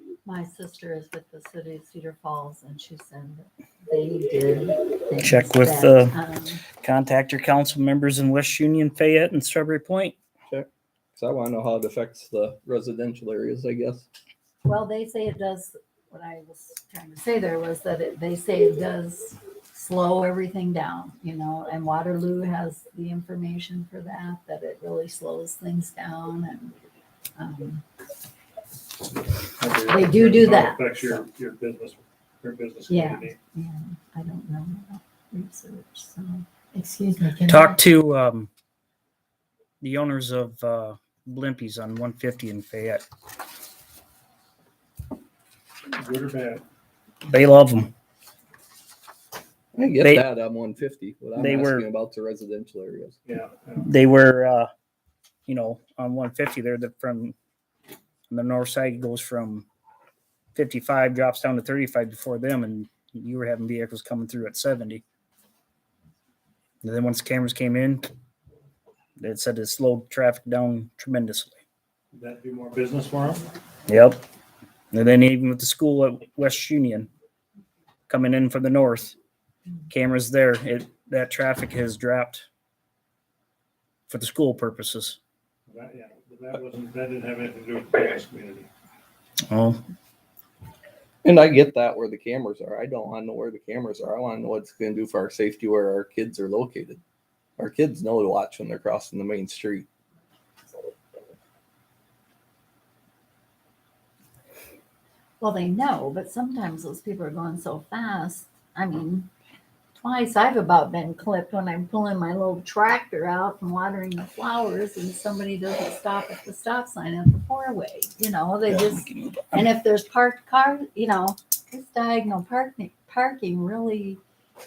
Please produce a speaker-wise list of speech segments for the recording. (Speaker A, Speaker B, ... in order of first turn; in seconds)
Speaker A: 0.2-6.6, 14.6-26.8, 27.4-27.8, 29.9-31.2, 32.9-37.8, 105.4-109.3, 110.0-124.2
Speaker B: 5.2-6.2, 6.8-10.2, 37.5-38.5, 39.8-43.0, 47.3-47.9, 50.0-50.3, 51.4-51.9, 53.8-54.7, 55.5-57.4, 58.3-59.7, 60.5-65.0, 66.8-68.1, 69.2-71.6, 73.9-74.2, 74.9-77.1, 78.1-79.2, 79.9-82.5, 84.1-85.2, 89.5-89.8
Speaker C: 10.5-14.1, 49.8-53.2, 91.2-97.0, 97.6-99.9
Speaker D: 29.6-33.4, 45.9-46.6, 53.3-53.9, 72.1-73.5, 85.7-88.7